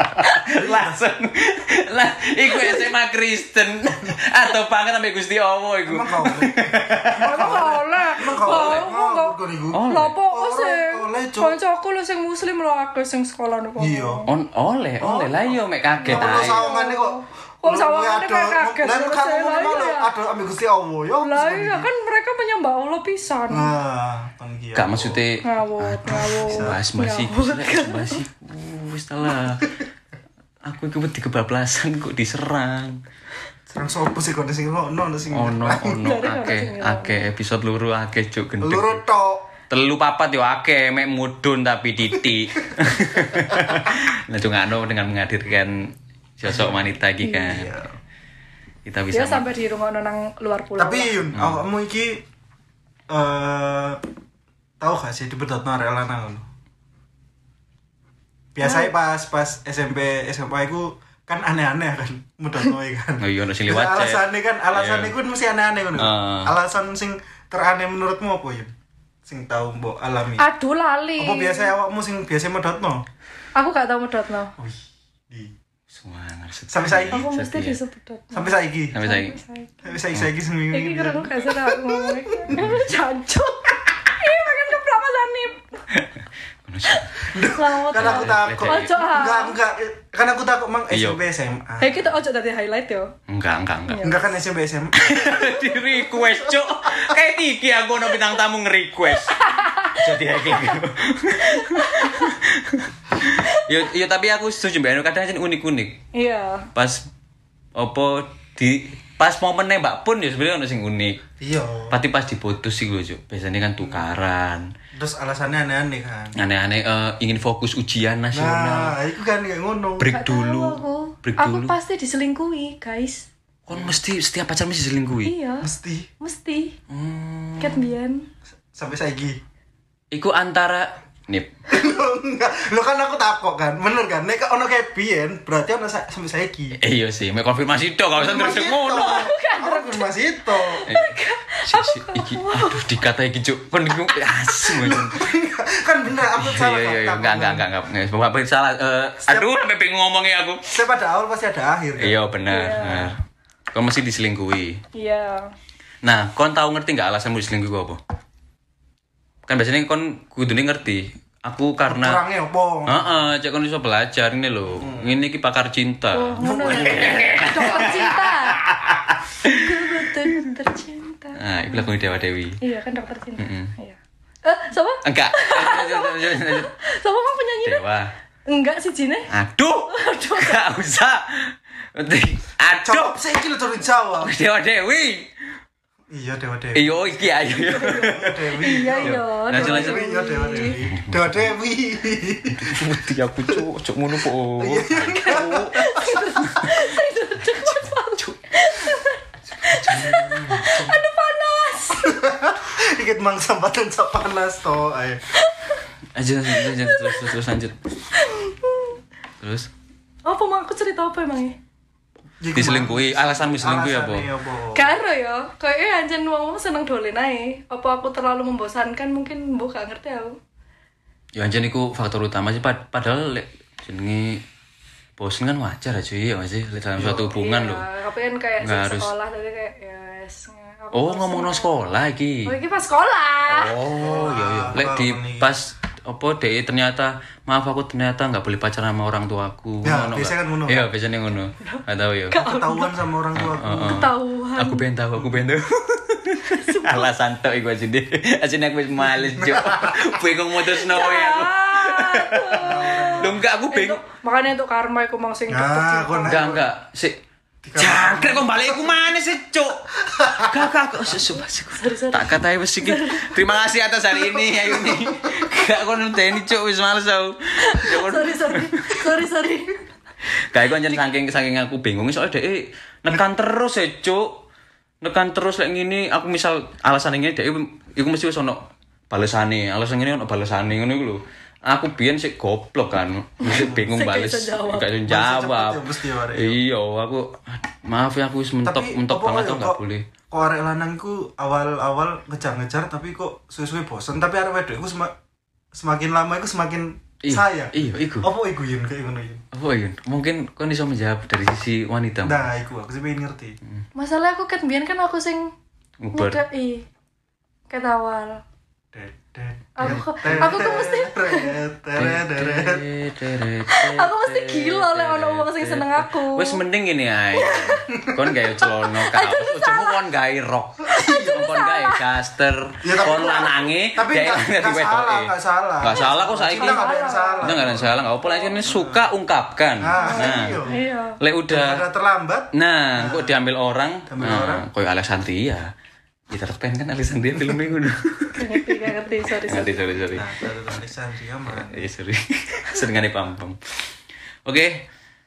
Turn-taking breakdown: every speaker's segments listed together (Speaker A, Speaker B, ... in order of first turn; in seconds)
Speaker A: 0.2-7.6, 8.4-8.8, 9.7-10.1, 14.3-16.7, 24.7-29.7, 30.6-33.0, 35.3-39.0, 39.7-47.7, 48.9-49.5, 51.3-51.6, 63.2-65.1, 66.0-66.5, 75.9-77.8, 78.9-79.3, 82.5-82.9, 86.6-87.2, 87.9-89.0, 90.9-91.2, 93.3-94.2, 95.0-106.0, 106.7-107.1, 107.7-111.2, 111.9-114.7, 116.4-119.0, 120.0-121.7, 123.7-125.3, 126.9-127.9, 130.1-131.5, 136.8-139.3, 140.9-145.4, 146.3-150.6, 152.0-153.2, 153.7-154.8, 156.0-158.0, 159.5-162.2, 162.8-169.9, 171.3-172.6, 173.4-173.7, 175.0-176.7, 177.6-178.1, 179.3-183.2, 184.2-185.3, 186.7-190.0, 190.9-191.2, 192.6-196.8, 197.7-198.3, 199.7-200.3, 206.1-207.8, 209.4-209.7, 212.5-214.3, 221.3-224.4, 225.2-227.9, 228.6-229.1, 230.9-232.5, 233.5-242.4, 243.3-254.0, 256.3-257.2, 257.8-259.8, 260.5-269.1, 270.4-274.4, 275.0-290.1, 297.2-298.3, 299.5-302.4, 306.0-306.4, 309.8-310.7, 311.9-326.9, 327.4-330.6, 331.2-331.9, 332.5-335.7, 336.3-338.7, 339.5-340.3, 341.5-343.9, 344.4-344.9
Speaker B: 0.5-1.0, 5.8-11.6, 13.8-14.2, 15.0-21.9, 23.5-25.2, 26.0-26.8, 33.7-36.0, 38.6-39.5, 43.4-43.9, 46.4-46.8, 47.4-47.9, 50.8-52.2, 53.1-54.0, 54.8-56.5, 58.5-68.7, 69.2-70.5, 71.2-73.0, 74.6-75.5, 76.7-77.2, 78.3-79.0, 79.8-82.6, 87.3-92.0, 94.0-95.5, 111.4-112.0, 114.9-116.3, 118.3-120.1, 125.6-126.1, 128.7-129.4, 131.7-136.8, 138.2-140.8, 144.8-147.7, 149.3-149.6, 150.7-152.2, 161.9-163.1, 164.8-165.1, 166.4-168.1, 182.8-184.3, 186.1-192.8, 194.6-196.2, 199.7-201.0, 201.9-205.2, 212.4-214.9, 227.0-227.3, 233.9-235.5, 239.8-240.9, 242.4-244.1, 249.1-250.1, 252.6-253.4, 255.5-256.6, 257.6-259.0, 260.0-260.7, 265.0-265.2, 283.4-283.9, 285.0-286.6, 288.6-295.1, 295.7-299.4, 302.2-303.6, 308.9-312.8, 317.9-318.2, 322.8-327.9, 328.6-329.0, 329.8-330.8, 331.5-333.4, 334.1-334.7, 340.1-341.9
Speaker C: 2.5-2.9, 7.2-9.3, 9.9-14.3, 16.0-20.1, 21.2-23.7, 25.4-28.2, 36.0-37.2, 47.2-47.5, 49.1-51.3, 58.6-58.9, 70.4-71.7, 73.5-74.5, 77.1-80.0, 80.7-85.8, 86.9-89.5, 91.8-93.1, 93.9-94.3, 99.4-100.8, 101.5-102.3, 103.4-103.7, 106.1-106.7, 120.1-123.3, 125.2-126.8, 127.6-128.3, 138.9-142.8, 152.5-153.1, 154.9-155.5, 166.1-168.6, 169.4-171.9, 172.6-177.8, 178.5-179.3, 179.9-180.6, 187.5-190.8, 195.2-202.2, 205.3-205.8, 206.6-207.3, 208.1-209.0, 210.2-211.6, 214.7-220.4, 227.3-231.8, 232.4-233.8, 241.6-242.9, 243.8-244.9, 246.5-247.1, 250.8-256.5, 261.4-263.4, 267.6-269.8, 283.9-284.9, 303.9-305.5, 306.1-306.9, 307.7-308.4, 309.8-311.6, 313.7-316.6, 317.3-318.1, 318.6-320.0, 320.9-322.0, 323.1-323.5, 325.9-328.6, 330.0-331.2, 338.4-340.1